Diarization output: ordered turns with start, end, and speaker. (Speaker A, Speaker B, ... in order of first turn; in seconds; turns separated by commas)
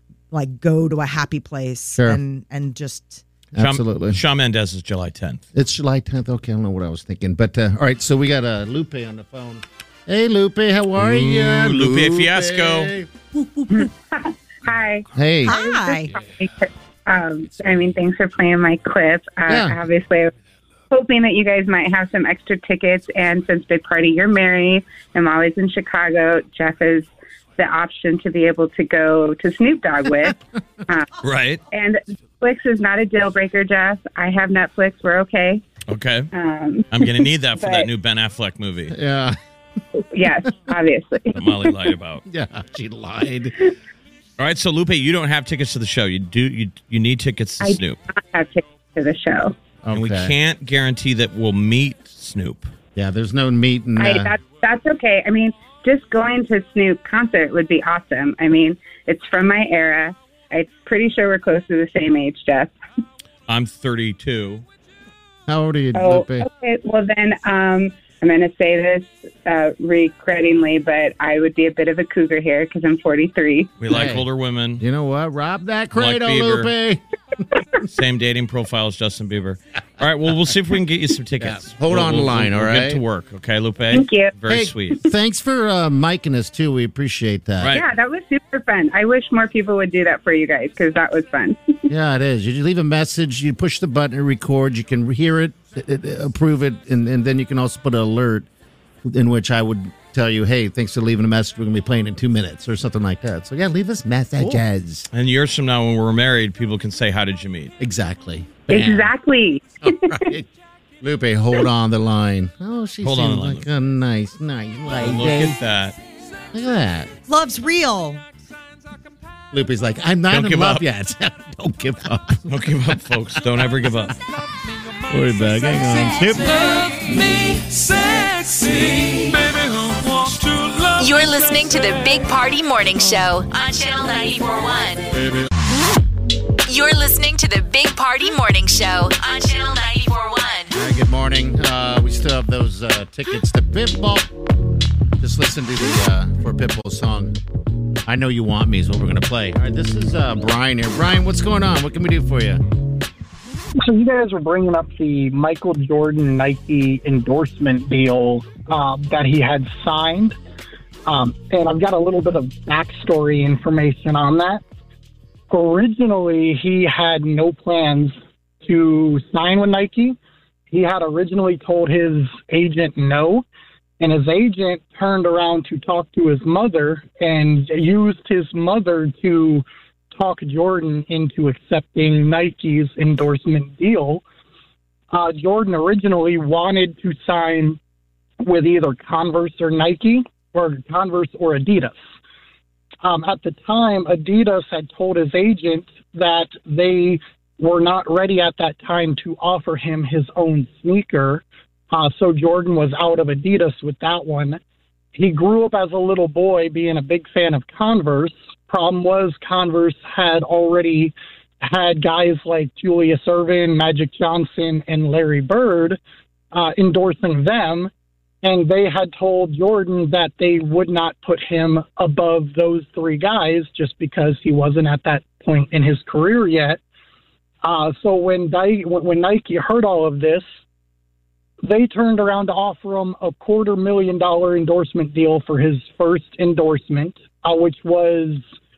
Speaker A: 0.3-3.2, Speaker B: 3.5-4.2, Speaker C: 3.6-5.4, Speaker B: 5.5-13.9, Speaker C: 11.0-12.9, Speaker D: 13.7-20.3, Speaker B: 15.1-15.6, Speaker A: 15.5-16.1, Speaker B: 19.5-19.8, Speaker D: 20.9-31.1, Speaker C: 31.2-31.6, Speaker D: 31.7-35.6, Speaker C: 35.9-36.3, Speaker D: 36.3-37.9, Speaker C: 36.9-39.0, Speaker B: 38.9-39.4, Speaker D: 40.1-41.9, Speaker C: 41.4-42.2, Speaker B: 42.3-43.6, Speaker C: 44.4-48.0, Speaker D: 47.6-49.6, Speaker B: 49.8-50.3, Speaker C: 49.9-52.7, Speaker B: 53.0-54.4, Speaker D: 54.0-62.7, Speaker C: 63.5-64.7, Speaker B: 65.5-66.5, Speaker D: 65.9-73.7, Speaker C: 73.8-74.8, Speaker B: 73.9-74.3, Speaker B: 74.8-77.4, Speaker C: 76.0-76.7, Speaker C: 77.9-85.0, Speaker B: 81.4-83.0, Speaker D: 83.9-84.3, Speaker B: 84.5-87.8, Speaker C: 87.6-87.9, Speaker D: 87.7-91.8, Speaker B: 91.9-98.5, Speaker B: 99.0-105.1, Speaker C: 105.1-107.7, Speaker B: 107.8-109.1, Speaker D: 108.7-110.3, Speaker B: 109.8-110.5, Speaker B: 111.0-115.6, Speaker C: 113.0-113.7, Speaker C: 114.9-116.0, Speaker B: 116.5-117.1, Speaker A: 117.3-118.2, Speaker B: 119.5-124.1, Speaker C: 120.3-120.8, Speaker C: 122.5-124.2, Speaker B: 125.1-126.7, Speaker E: 126.4-132.3, Speaker F: 131.0-135.1, Speaker F: 136.7-140.7, Speaker B: 140.7-144.3, Speaker B: 145.2-147.4, Speaker B: 148.1-152.6, Speaker G: 153.8-160.4, Speaker G: 161.1-164.6, Speaker G: 165.5-170.2, Speaker G: 170.7-173.4, Speaker G: 174.0-184.2, Speaker G: 185.1-187.8, Speaker G: 188.4-192.0, Speaker G: 193.0-204.6, Speaker G: 205.2-216.0, Speaker G: 216.5-217.9, Speaker G: 218.4-226.8, Speaker G: 227.6-230.4, Speaker G: 231.6-238.4